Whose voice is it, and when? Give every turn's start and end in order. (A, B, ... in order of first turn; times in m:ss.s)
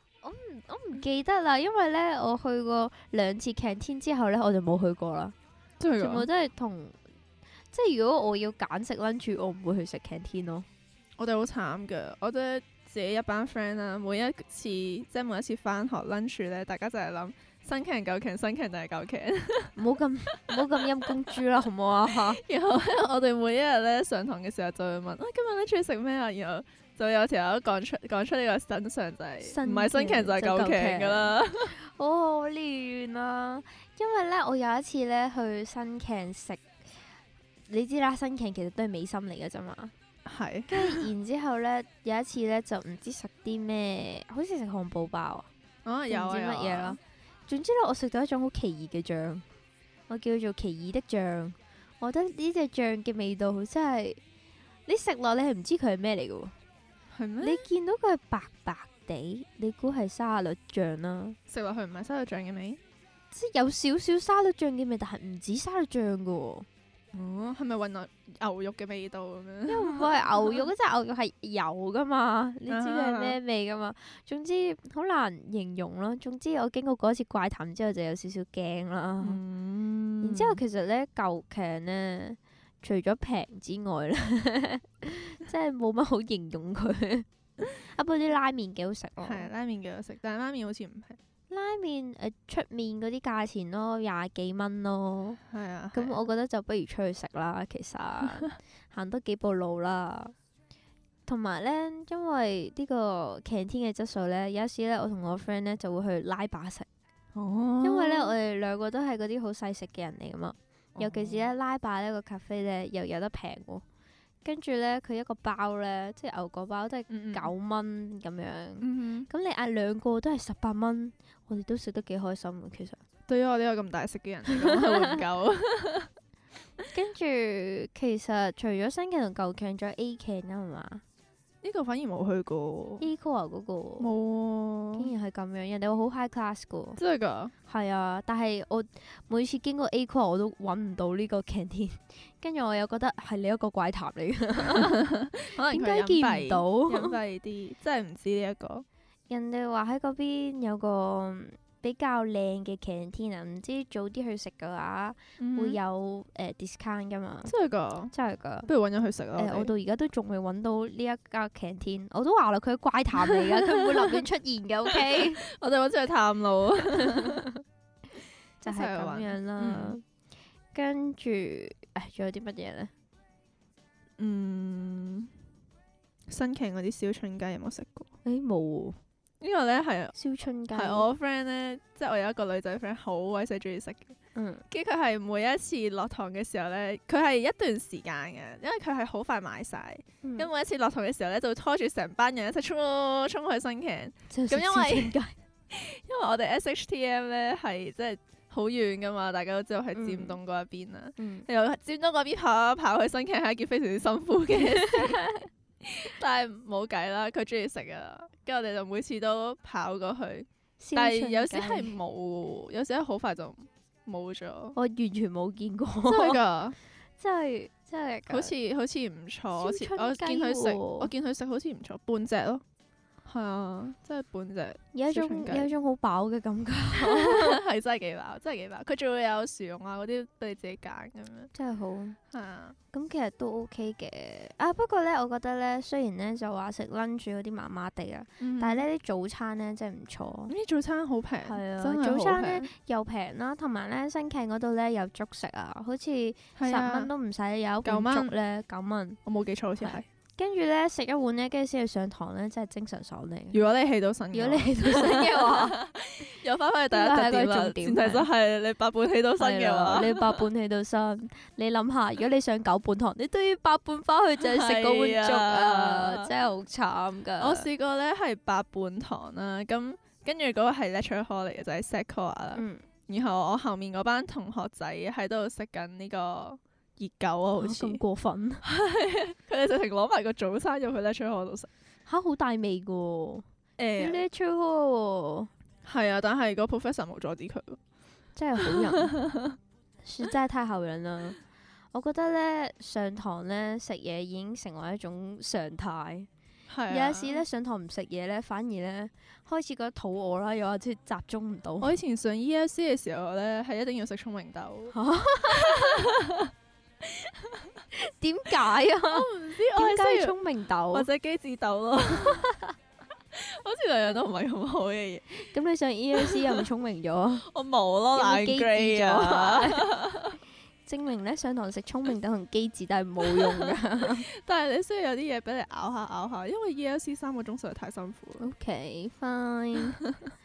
0:00.2-0:05.3 A
0:05.8-0:06.3 B
0:06.0-0:07.0 A
0:07.7-0:10.7 A
0:11.2-0:19.8 B
0:19.8-0:22.4 A
0:20.5-0:20.7 B
0:22.1-0:31.7 B
0:29.4-0:36.7 A
0:37.7-0:39.9 A
0:40.2-0:41.1 B
0:40.7-0:45.5 A
0:45.8-0:47.0 B
0:46.1-0:49.4 A
0:50.1-0:54.2 A
0:54.9-0:56.5 A
0:57.1-0:57.6 B
0:57.4-1:01.4 A
1:01.5-1:02.8 B
1:03.3-1:06.7 A
1:07.1-1:10.7 B
1:09.7-1:19.4 A
1:12.7-1:13.4 B
1:19.2-1:20.6 B
1:20.2-1:29.5 A
1:29.2-1:31.2 B
1:31.5-1:35.4 A
1:35.5-1:36.2 B
1:35.9-1:40.3 A
1:41.2-1:46.9 A
1:47.3-1:48.3 B
1:47.8-1:53.8 A
1:51.0-1:51.5 B
1:54.4-2:03.0 A
1:57.1-1:57.5 B
1:58.8-1:59.3 B
2:03.3-2:06.1 B
2:04.6-2:05.1 A
2:06.9-2:11.0 A
2:11.6-2:13.0 B
2:13.0-2:14.1 A
2:14.0-2:15.1 B
2:14.9-2:17.0 A
2:17.0-2:17.5 B
2:17.7-2:25.0 A
2:24.7-2:28.8 B
2:25.7-2:27.2 A
2:29.3-2:37.5 A
2:35.4-2:35.8 B
2:37.4-2:38.1 B
2:38.1-2:38.7 A
2:38.6-2:39.7 B
2:39.4-2:45.4 A
2:43.3-2:44.1 B
2:44.9-2:47.4 B
2:46.9-2:47.5 A
2:48.6-2:50.0 A
2:48.6-2:50.0 B
2:50.7-2:52.9 A
2:54.2-2:55.3 B
2:56.3-2:58.1 B
2:58.2-2:59.0 A
2:59.4-3:00.2 B
3:00.1-3:01.1 A
3:00.7-3:04.2 B
3:04.3-3:04.6 A
3:04.7-3:15.1 B
3:10.2-3:10.5 A
3:14.3-3:15.3 A
3:15.7-3:25.2 B
3:19.9-3:20.4 A
3:21.2-3:21.4 A
3:24.7-3:25.4 A
3:25.8-3:34.8 B
3:30.8-3:32.0 A
3:34.7-3:36.4 A
3:36.0-3:36.8 B
3:37.2-3:38.5 A
3:38.3-3:42.6 B
3:39.6-3:41.1 A
3:43.2-3:45.7 B
3:44.9-3:47.6 A
3:46.9-3:51.5 B
3:51.5-3:52.2 A
3:52.3-3:52.8 B
3:52.9-4:00.5 A
3:58.4-3:58.8 B
4:00.5-4:02.7 B
4:01.4-4:09.2 A
4:06.6-4:07.1 B
4:07.8-4:08.3 B
4:09.2-4:10.0 B
4:09.8-4:13.6 A
4:13.5-4:20.4 B
4:14.3-4:15.8 A
4:16.9-4:18.3 A
4:19.4-4:27.7 A
4:24.4-4:26.3 B
4:27.4-4:38.0 B
4:32.5-4:32.8 A
4:37.6-4:38.6 A
4:38.6-4:41.7 B
4:42.1-4:43.4 A
4:43.8-4:44.2 B
4:44.0-4:45.5 A
4:45.8-4:47.8 B
4:48.4-4:49.2 A
4:48.6-4:49.6 B
4:50.0-4:51.4 A
4:51.9-4:56.3 A
4:56.7-4:57.4 B
4:56.9-5:01.9 A
5:01.8-5:05.0 B
5:04.9-5:06.0 A
5:05.5-5:06.5 B
5:07.9-5:11.1 A
5:09.1-5:10.4 B
5:10.9-5:12.5 B
5:12.2-5:12.7 A
5:13.3-5:15.5 B
5:15.4-5:17.4 A
5:16.2-5:16.6 B
5:17.4-5:20.4 B
5:18.1-5:19.9 A
5:20.8-5:24.3 A
5:23.3-5:28.4 B
5:28.4-5:30.0 A